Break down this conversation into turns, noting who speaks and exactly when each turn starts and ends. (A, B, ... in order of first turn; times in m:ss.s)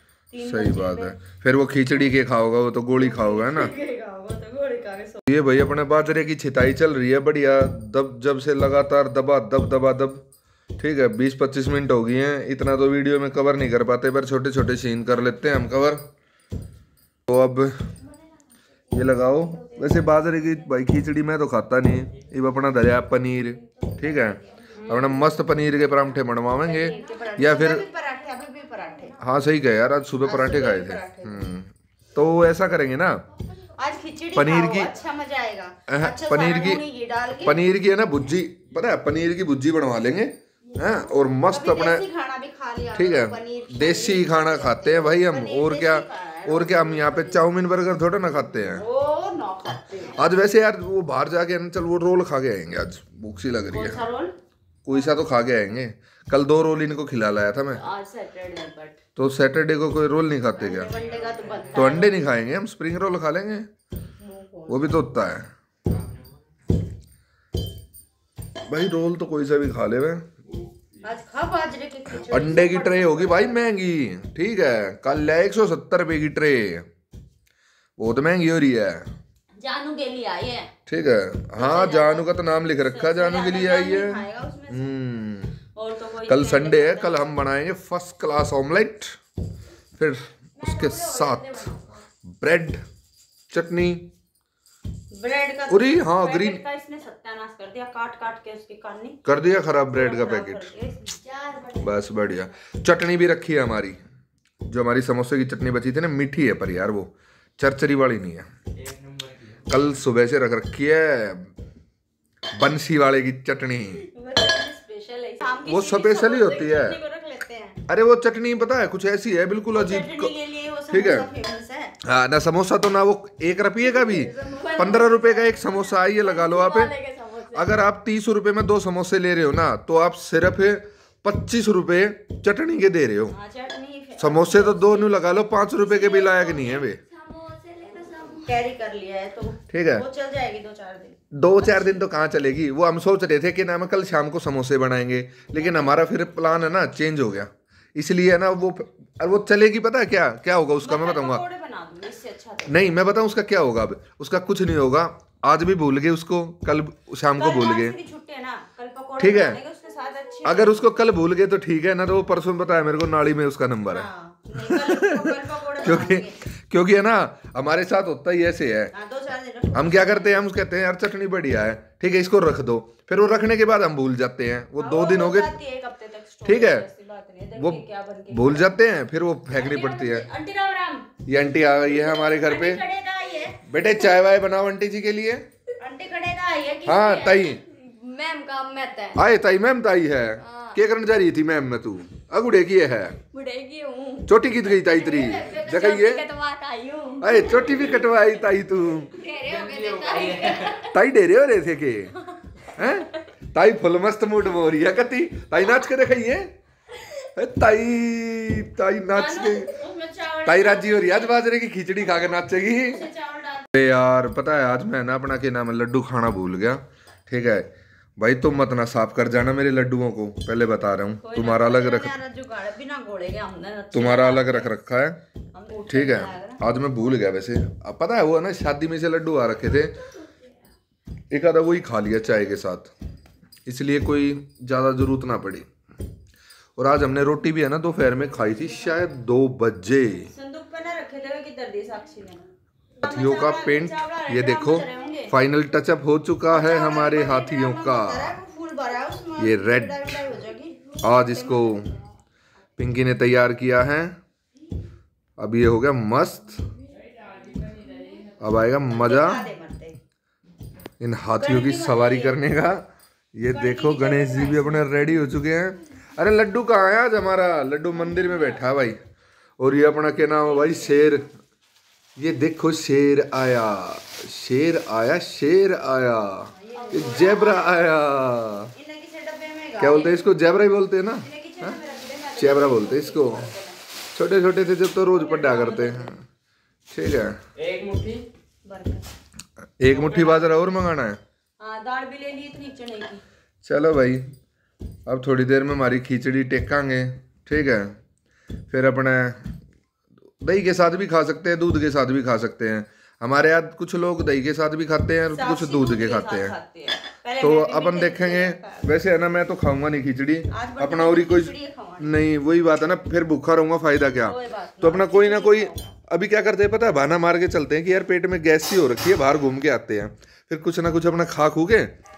0:00.3-0:01.2 A
0:00.4-0:03.7 B
0:03.0-0:05.3 A
0:05.3-0:10.2 B
0:10.8-0:16.0 B
0:17.3-0:17.7 B
0:18.9-0:27.8 B
0:23.8-0:24.5 C
0:24.7-0:25.1 A
0:26.5-0:29.2 A
0:27.4-0:27.8 C
0:29.2-0:33.2 B
0:30.2-0:31.5 A
0:33.8-0:37.7 A
0:34.3-0:34.9 B
0:35.9-0:36.8 B
0:37.4-0:42.0 B
0:41.5-0:47.4 A
0:42.9-0:48.8 B
0:48.6-0:50.2 A
0:50.1-0:54.0 B
0:53.7-0:54.3 A
0:54.8-0:57.8 B
0:57.7-0:59.0 A
0:59.2-1:00.9 B
1:00.5-1:02.2 A
1:01.0-1:01.8 D
1:01.7-1:03.7 B
1:04.2-1:05.0 A
1:04.7-1:05.5 B
1:08.7-1:10.2 B
1:11.0-1:13.7 A
1:12.1-1:16.8 B
1:18.0-1:19.1 B
1:19.6-1:20.7 A
1:20.9-1:25.6 B
1:21.6-1:24.9 A
1:25.8-1:27.3 A
1:26.3-1:29.2 B
1:30.0-1:31.7 B
1:30.6-1:31.8 C
1:32.3-1:32.8 B
1:33.5-1:34.0 B
1:35.1-1:39.2 A
1:35.7-1:36.6 B
1:39.2-1:40.7 B
1:39.9-1:41.2 A
1:41.2-1:42.4 C
1:41.8-1:44.0 B
1:44.6-1:48.5 B
1:48.8-1:49.6 D
1:49.7-1:51.5 B
1:52.5-1:54.0 B
1:54.1-1:57.8 A
1:55.6-1:57.0 B
1:57.9-2:00.3 B
1:59.7-2:02.0 A
2:00.9-2:01.3 B
2:02.0-2:06.9 B
2:03.8-2:07.8 C
2:07.5-2:13.3 B
2:13.3-2:15.2 A
2:14.2-2:17.0 B
2:15.8-2:18.5 C
2:18.4-2:22.0 A
2:19.7-2:20.0 B
2:21.3-2:31.4 B
2:25.6-2:26.0 A
2:30.8-2:32.9 A
2:32.7-2:37.9 B
2:37.4-2:40.9 A
2:39.2-2:39.6 B
2:40.4-2:44.1 B
2:43.9-2:46.4 A
2:44.7-2:45.3 B
2:45.8-2:48.9 B
2:48.9-2:50.4 A
2:49.7-2:55.5 B
2:54.8-2:58.7 A
2:56.4-2:56.8 B
2:57.6-3:00.2 B
2:59.5-3:01.1 A
3:01.3-3:02.8 B
3:01.9-3:03.7 A
3:03.6-3:05.4 B
3:05.8-3:07.4 A
3:06.8-3:07.6 B
3:07.2-3:09.2 C
3:09.2-3:13.2 B
3:10.4-3:10.8 C
3:13.3-3:18.1 C
3:14.3-3:16.2 B
3:17.2-3:19.1 B
3:19.1-3:20.9 C
3:19.4-3:20.8 D
3:20.9-3:22.2 B
3:22.8-3:26.5 B
3:27.3-3:29.7 B
3:29.1-3:31.4 C
3:30.4-3:33.1 B
3:33.0-3:33.6 A
3:33.7-3:37.7 B
3:38.2-3:42.1 B
3:41.2-3:44.7 A
3:43.9-3:45.2 B
3:45.5-3:46.6 A
3:45.9-3:50.0 B
3:51.3-3:52.9 B
3:53.7-3:55.7 B
3:56.8-4:00.3 B
4:00.2-4:02.4 A
4:03.0-4:05.3 A
4:03.0-4:08.3 B
4:06.5-4:10.8 A
4:09.4-4:10.2 B
4:11.0-4:11.9 B
4:11.1-4:11.7 C
4:12.8-4:14.2 B
4:15.4-4:16.6 B
4:17.8-4:18.2 C
4:18.4-4:19.4 B
4:18.9-4:20.0 A
4:21.0-4:22.8 B
4:21.4-4:22.4 A
4:23.3-4:29.0 B
4:23.5-4:24.9 A
4:29.6-4:31.2 B
4:32.2-4:38.7 B
4:36.5-4:37.7 A
4:38.7-4:40.2 A
4:39.8-4:41.8 B
4:41.2-4:43.8 A
4:42.4-4:43.5 B
4:44.1-4:46.2 B
4:45.1-4:46.1 A
4:46.9-4:47.3 B
4:47.6-4:48.2 D
4:48.6-4:49.1 A
4:49.8-4:51.2 B
4:49.9-4:50.6 A
4:51.6-4:53.2 A
4:53.6-4:54.2 B
4:55.1-4:58.0 B
4:58.7-4:59.5 B
5:00.4-5:06.6 B
5:05.3-5:08.9 A
5:07.4-5:21.9 B
5:10.5-5:12.2 A
5:14.2-5:15.9 A